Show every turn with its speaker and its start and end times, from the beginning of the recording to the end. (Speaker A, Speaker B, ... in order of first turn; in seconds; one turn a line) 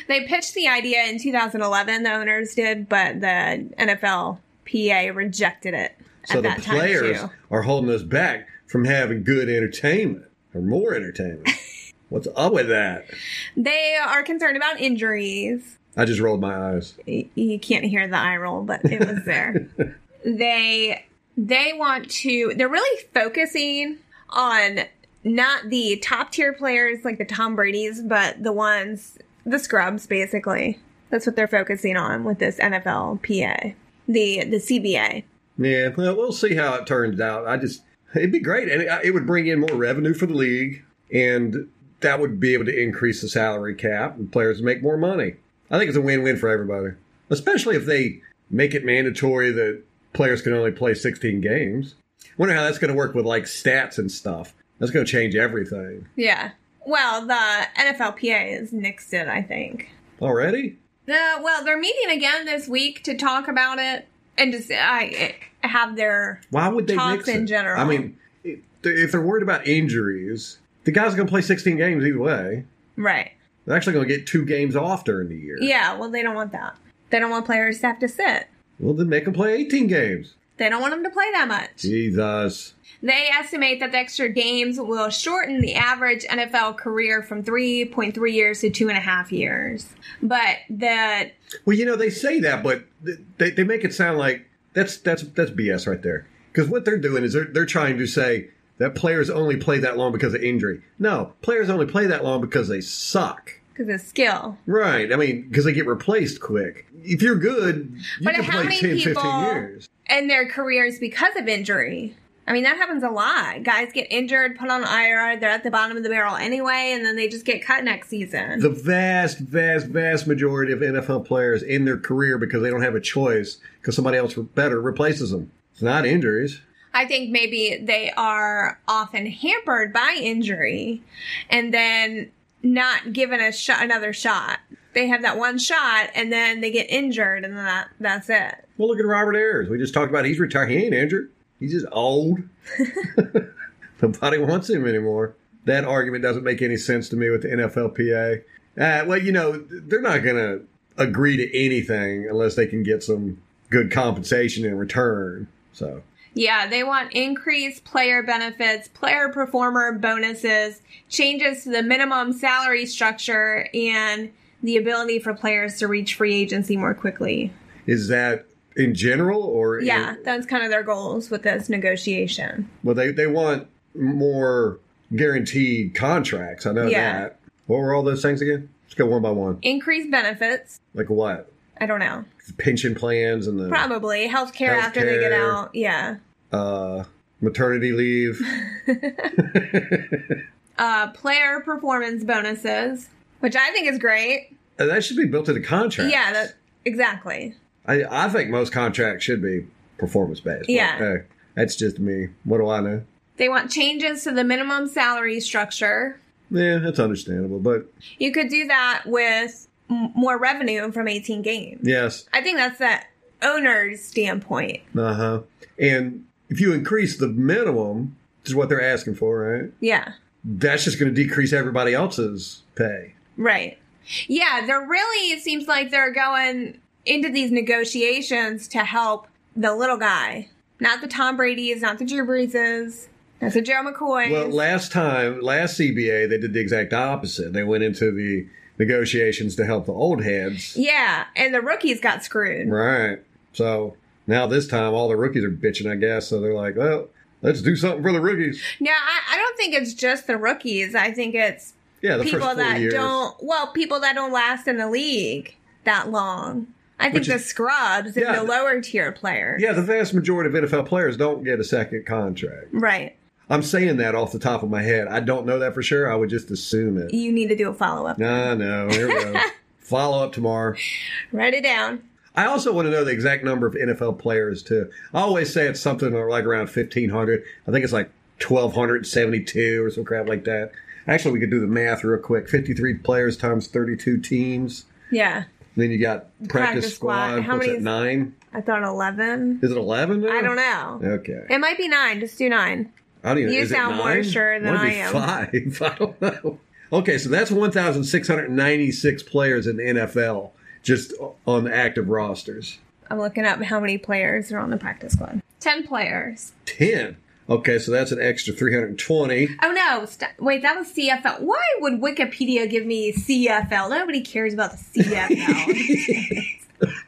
Speaker A: 0.1-7.3
Speaker B: 6.3-11.6
Speaker B: 12.1-13.1
Speaker A: 13.6-15.7
Speaker B: 16.0-17.0
Speaker A: 17.1-19.7
Speaker A: 20.2-35.2
Speaker B: 35.6-56.1
Speaker A: 56.2-59.9
Speaker B: 60.2-60.8
Speaker A: 61.1-68.1
Speaker B: 66.5-72.7
Speaker A: 73.0-73.3
Speaker B: 73.7-75.7
Speaker A: 75.6-78.5
Speaker B: 78.8-80.3
Speaker A: 80.6-81.9
Speaker B: 81.8-82.8
Speaker A: 83.0-91.3
Speaker B: 91.7-103.6
Speaker A: 103.8-104.6
Speaker B: 104.7-109.9
Speaker A: 108.1-118.7
Speaker B: 118.6-126.6
Speaker A: 126.9-138.7
Speaker B: 138.8-142.5
Speaker B: 143.0-143.5
Speaker B: 144.0-156.0
Speaker A: 156.3-167.5
Speaker B: 167.9-170.2
Speaker A: 169.8-172.7
Speaker B: 172.8-179.6
Speaker A: 176.8-177.2
Speaker A: 179.6-180.8
Speaker B: 180.9-181.5
Speaker A: 181.8-182.3
Speaker B: 182.4-183.9
Speaker A: 183.7-186.2
Speaker B: 184.7-185.6
Speaker B: 186.5-188.5
Speaker A: 188.5-189.3
Speaker B: 189.4-190.4
Speaker A: 190.8-194.5
Speaker B: 194.8-196.5
Speaker A: 196.0-197.6
Speaker B: 197.8-203.0
Speaker A: 200.7-201.1
Speaker A: 203.4-206.2
Speaker B: 206.5-207.9
Speaker A: 208.2-214.8
Speaker B: 211.8-212.3
Speaker B: 214.9-219.7
Speaker A: 219.8-220.1
Speaker B: 220.4-223.1
Speaker A: 223.4-234.6
Speaker B: 234.2-240.8
Speaker A: 240.7-242.8
Speaker B: 242.7-248.6
Speaker A: 248.7-259.6
Speaker B: 252.0-253.2
Speaker B: 257.1-257.4
Speaker B: 258.2-258.5
Speaker B: 259.6-262.7
Speaker A: 262.7-263.1
Speaker B: 263.5-267.1
Speaker A: 267.1-269.5
Speaker B: 268.2-270.8
Speaker A: 271.3-272.0
Speaker B: 272.4-284.9
Speaker A: 285.1-285.5
Speaker B: 285.8-288.4
Speaker A: 286.4-287.9
Speaker A: 288.5-289.6
Speaker B: 289.6-291.5
Speaker A: 290.3-292.9
Speaker B: 293.2-302.8
Speaker A: 293.4-295.3
Speaker A: 303.1-306.5
Speaker B: 306.7-309.6
Speaker A: 309.6-316.5
Speaker B: 315.0-316.5